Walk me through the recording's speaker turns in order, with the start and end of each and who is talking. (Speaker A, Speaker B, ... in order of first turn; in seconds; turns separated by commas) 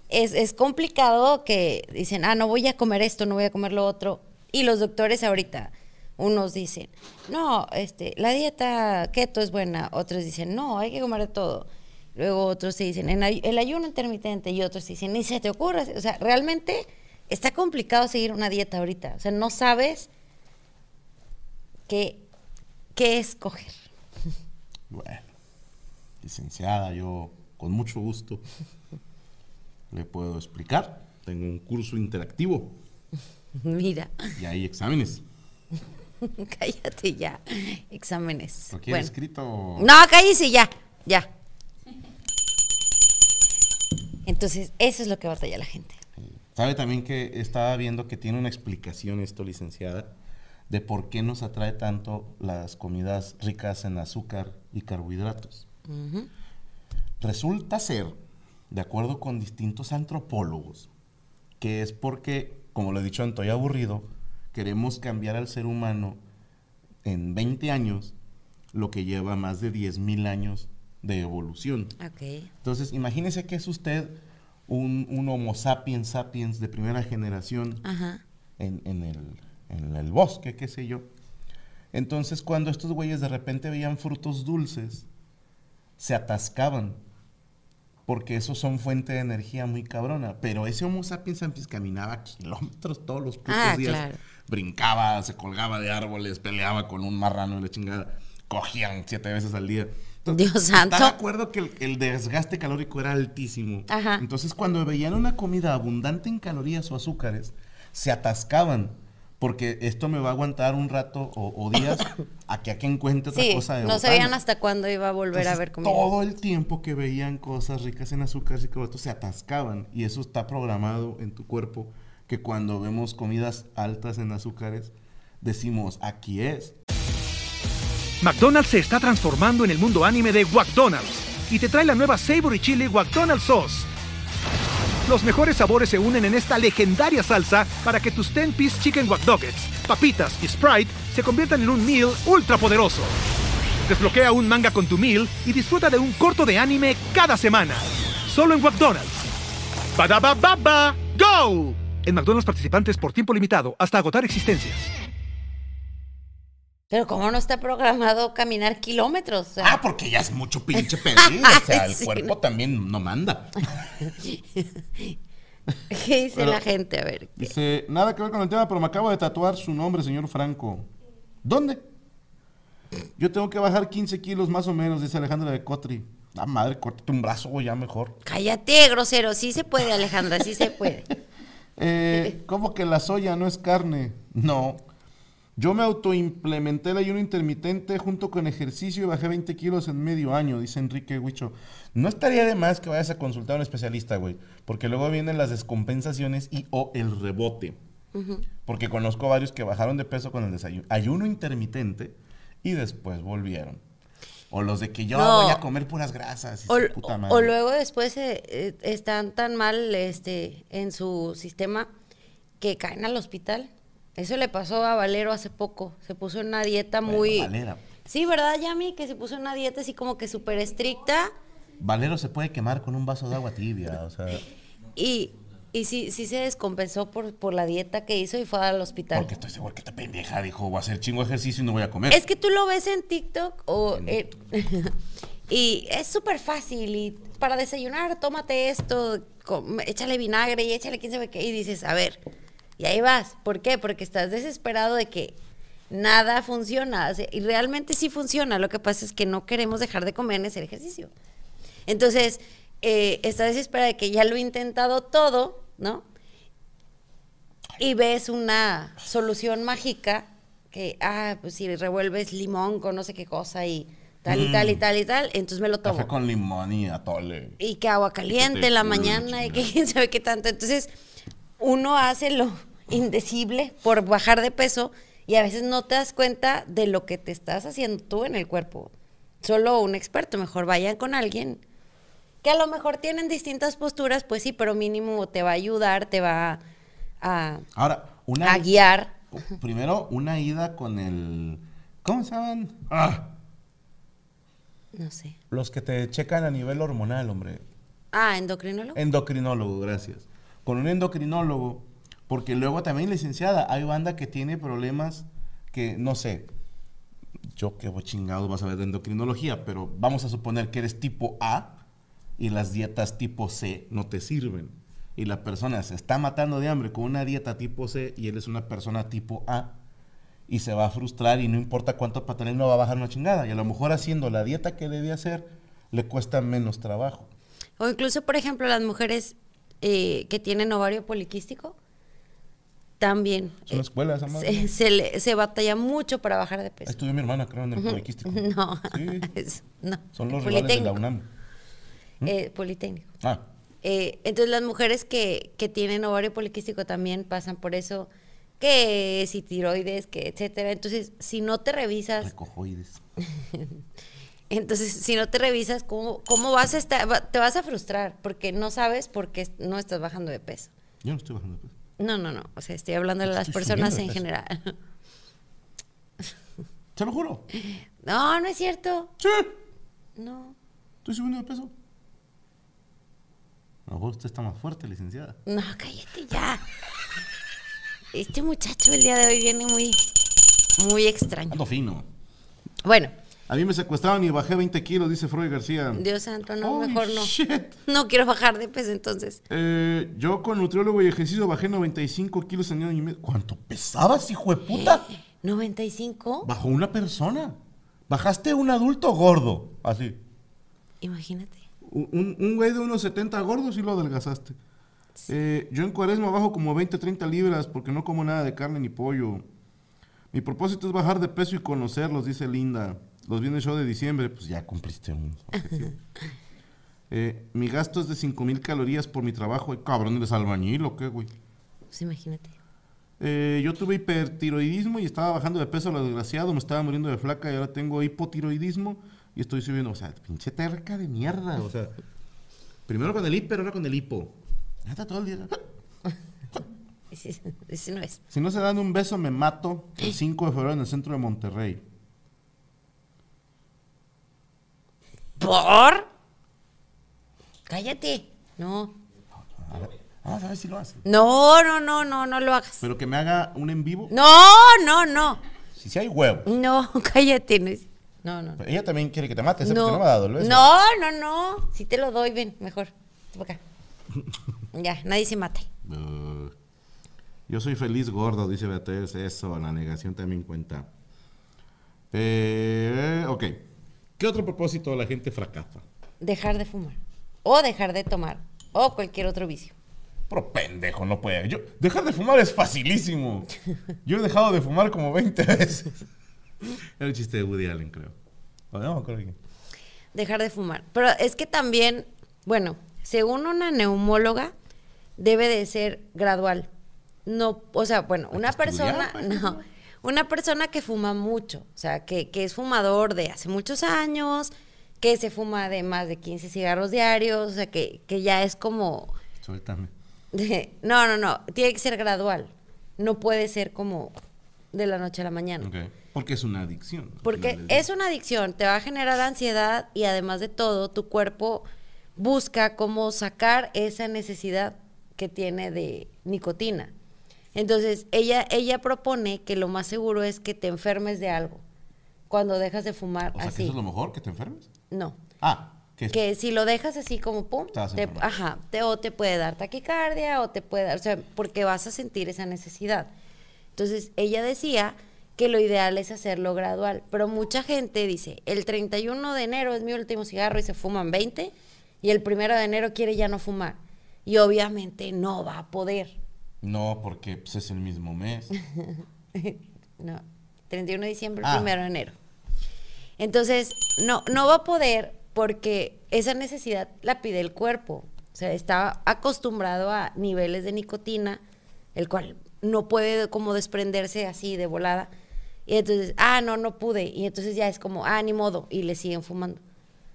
Speaker A: 0.1-20.1, Speaker A: 21.9-22.2, Speaker A: 22.9-23.8, Speaker B: 24.9-25.3, Speaker B: 26.2-28.4, Speaker B: 29.9-32.8, Speaker A: 33.6-34.1, Speaker B: 34.4-35.2, Speaker A: 36.2-39.1, Speaker B: 38.7-39.9, Speaker A: 39.8-41.3, Speaker A: 44.2-46.0, Speaker B: 46.2-50.1, Speaker B: 50.7-55.6, Speaker A: 55.9-56.3, Speaker B: 57.2-58.2, Speaker B: 58.7-60.9, Speaker B: 61.6-66.2, Speaker B: 67.0-68.1, Speaker B: 68.7-72.0, Speaker A: 72.0-72.5, Speaker B: 72.6-77.8, Speaker A: 77.8-78.2, Speaker B: 78.6-81.1, Speaker B: 81.9-85.0, Speaker B: 86.0-87.0, Speaker B: 88.1-114.3, Speaker A: 93.5-94.2, Speaker A: 100.3-101.1, Speaker A: 103.9-104.2, Speaker A: 113.3-116.1, Speaker B: 115.3-126.8, Speaker C: 128.2-133.9, Speaker C: 135.1-143.1, Speaker C: 143.9-149.2, Speaker C: 149.9-154.9, Speaker A: 156.9-159.8, Speaker B: 159.6-164.2, Speaker A: 160.8-162.3, Speaker A: 164.2-165.1, Speaker A: 165.9-167.5, Speaker B: 166.3-166.6, Speaker B: 167.4-170.9, Speaker B: 171.4-171.8, Speaker B: 173.2-178.2, Speaker A: 178.2-181.1, Speaker B: 180.4-180.7, Speaker B: 181.8-184.8, Speaker B: 185.6-197.8, Speaker A: 198.1-198.4, Speaker B: 198.6-203.8, Speaker B: 204.5-207.5, Speaker A: 205.1-205.6, Speaker A: 206.7-211.9, Speaker A: 212.6-217.5, Speaker B: 217.0-217.8, Speaker A: 218.1-221.3, Speaker B: 221.8-224.4, Speaker A: 224.9-229.3, Speaker B: 229.1-232.2, Speaker A: 232.1-234.9, Speaker B: 233.9-234.2, Speaker A: 235.5-242.2, Speaker A: 242.8-245.3, Speaker A: 245.9-251.1, Speaker A: 251.9-256.0, Speaker A: 257.8-266.1, Speaker B: 264.3-264.8, Speaker B: 265.8-267.6, Speaker A: 267.6-270.9, Speaker B: 268.3-269.7, Speaker A: 271.6-281.6, Speaker A: 282.4-286.6, Speaker A: 287.2-287.6, Speaker B: 287.7-288.8, Speaker A: 288.4-289.1, Speaker B: 289.3-293.3, Speaker A: 294.9-295.4, Speaker B: 295.5-297.6, Speaker A: 298.1-299.0, Speaker B: 298.9-306.5, Speaker B: 307.6-311.8, Speaker B: 312.4-319.8, Speaker B: 320.5-327.3, Speaker A: 327.8-331.8, Speaker A: 333.0-337.0, Speaker B: 333.6-334.7, Speaker B: 336.9-339.3, Speaker A: 337.8-341.0, Speaker B: 340.1-341.3, Speaker A: 342.2-343.1, Speaker A: 343.8-348.1, Speaker A: 348.6-352.3, Speaker B: 352.2-353.0, Speaker A: 354.5-360.7, Speaker B: 361.0-361.7, Speaker A: 362.0-364.7, Speaker B: 363.2-364.2, Speaker B: 366.9-367.5, Speaker A: 368.0-369.1, Speaker B: 369.2-369.5, Speaker A: 370.2-370.5, Speaker B: 371.0-371.7, Speaker B: 373.9-375.4, Speaker A: 375.5-376.6, Speaker A: 378.1-380.1, Speaker A: 380.8-381.6, Speaker B: 381.5-382.1, Speaker A: 382.8-383.1, Speaker B: 383.5-386.1, Speaker A: 385.9-387.3, Speaker B: 386.6-387.8, Speaker A: 387.9-389.4, Speaker B: 389.5-395.1, Speaker A: 394.7-396.5, Speaker B: 396.4-397.6, Speaker B: 398.1-400.2, Speaker A: 401.0-401.6, Speaker B: 401.8-404.6, Speaker B: 405.3-409.4, Speaker B: 410.3-416.0, Speaker B: 417.1-421.3, Speaker A: 421.9-422.5, Speaker B: 423.2-431.9, Speaker B: 432.9-435.6, Speaker A: 437.1-438.2, Speaker B: 438.3-441.8, Speaker A: 445.4-446.1, Speaker A: 447.7-448.9, Speaker B: 449.6-451.0, Speaker A: 451.0-452.8, Speaker B: 452.8-454.1, Speaker A: 454.1-455.4, Speaker B: 455.8-456.5, Speaker A: 456.4-458.6, Speaker B: 458.6-460.6, Speaker A: 459.6-463.6, Speaker A: 464.7-465.7, Speaker B: 465.8-466.5, Speaker B: 467.5-470.9, Speaker B: 472.1-473.6, Speaker B: 474.2-475.8, Speaker A: 476.2-479.7, Speaker B: 480.3-483.5, Speaker B: 484.0-486.0, Speaker B: 487.0-488.1, Speaker B: 488.7-489.4, Speaker A: 490.1-494.5, Speaker A: 495.2-496.7, Speaker A: 497.2-509.1, Speaker B: 498.3-499.6, Speaker B: 509.4-509.9, Speaker A: 510.3-514.2, Speaker A: 514.7-515.7, Speaker B: 515.6-517.9, Speaker A: 517.2-526.9, Speaker A: 527.5-531.6, Speaker A: 532.3-533.8, Speaker B: 533.3-534.7, Speaker A: 534.9-535.2, Speaker B: 535.4-536.2, Speaker A: 536.1-543.1, Speaker B: 537.7-538.3, Speaker A: 543.8-556.2, Speaker B: 556.6-558.5, Speaker A: 559.3-562.1, Speaker B: 561.4-561.7, Speaker A: 563.2-571.4, Speaker A: 571.9-575.1, Speaker A: 575.7-579.6